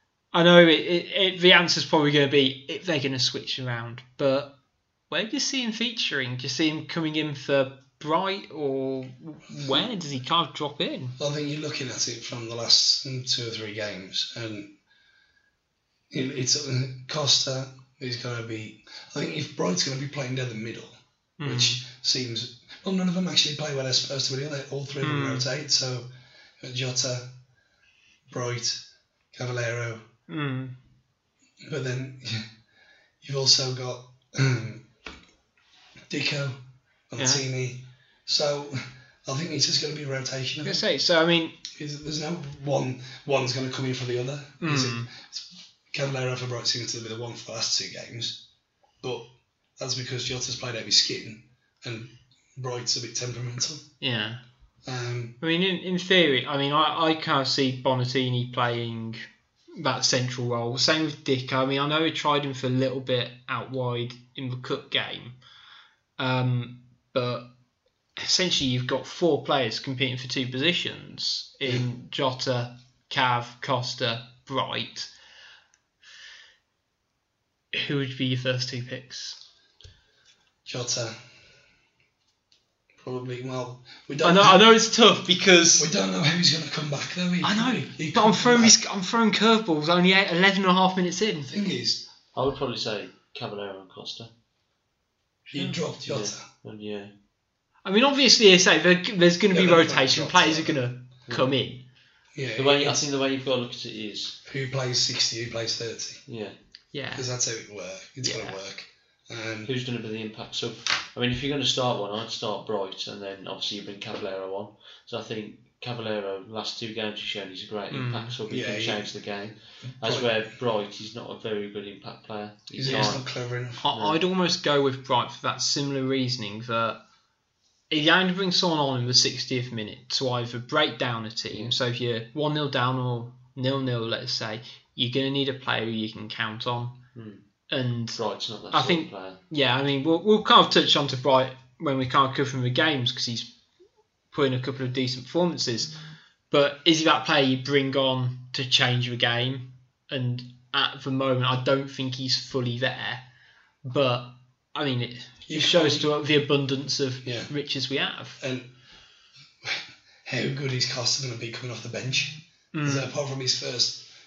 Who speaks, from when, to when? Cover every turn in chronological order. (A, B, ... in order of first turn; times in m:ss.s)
0:00.3-0:04.6 A
0:05.1-0:11.2 A
0:09.5-0:09.8 B
0:11.2-0:14.7 B
0:16.1-0:26.1 B
0:21.4-0:21.8 A
0:25.0-0:25.5 A
0:26.6-0:27.3 B
0:28.3-0:30.0 B
0:30.3-0:30.8 A
0:31.6-0:32.5 B
0:33.2-0:34.9 B
0:36.1-0:40.8 B
0:37.2-0:37.4 A
0:40.6-0:41.6 A
0:41.7-0:48.4 B
0:44.6-0:45.1 A
0:49.0-0:53.8 B
0:54.0-0:54.4 A
0:54.8-0:55.4 B
0:55.4-0:59.2 A
0:59.8-1:05.4 A
1:06.2-1:07.5 A
1:08.2-1:15.1 A
1:17.7-1:19.4 A
1:20.6-1:21.2 B
1:23.0-1:24.6 B
1:24.2-1:25.9 A
1:25.8-1:28.8 B
1:27.4-1:31.5 A
1:31.5-1:32.0 B
1:32.3-1:34.3 C
1:35.5-1:36.4 B
1:35.5-1:35.8 A
1:36.1-1:37.1 C
1:37.8-1:41.8 A
1:39.5-1:40.8 B
1:41.3-1:41.5 C
1:42.3-1:43.0 B
1:42.6-1:44.4 C
1:44.4-1:46.2 B
1:46.3-1:46.6 C
1:46.9-1:47.3 A
1:47.1-1:49.7 B
1:48.2-1:48.6 A
1:49.6-2:03.2 C
1:57.9-1:58.3 A
1:58.5-1:59.1 B
1:59.8-2:00.4 B
2:02.7-2:03.8 B
2:02.8-2:03.1 A
2:03.8-2:07.0 A
2:03.9-2:04.2 C
2:07.9-2:17.0 A
2:17.1-2:17.4 C
2:17.7-2:23.5 A
2:18.1-2:19.4 C
2:24.3-2:26.0 A
2:26.5-2:33.2 A
2:33.8-2:38.4 A
2:35.5-2:36.1 B
2:37.2-2:37.5 B
2:38.4-2:38.7 B
2:39.6-2:44.1 B
2:42.7-2:43.1 A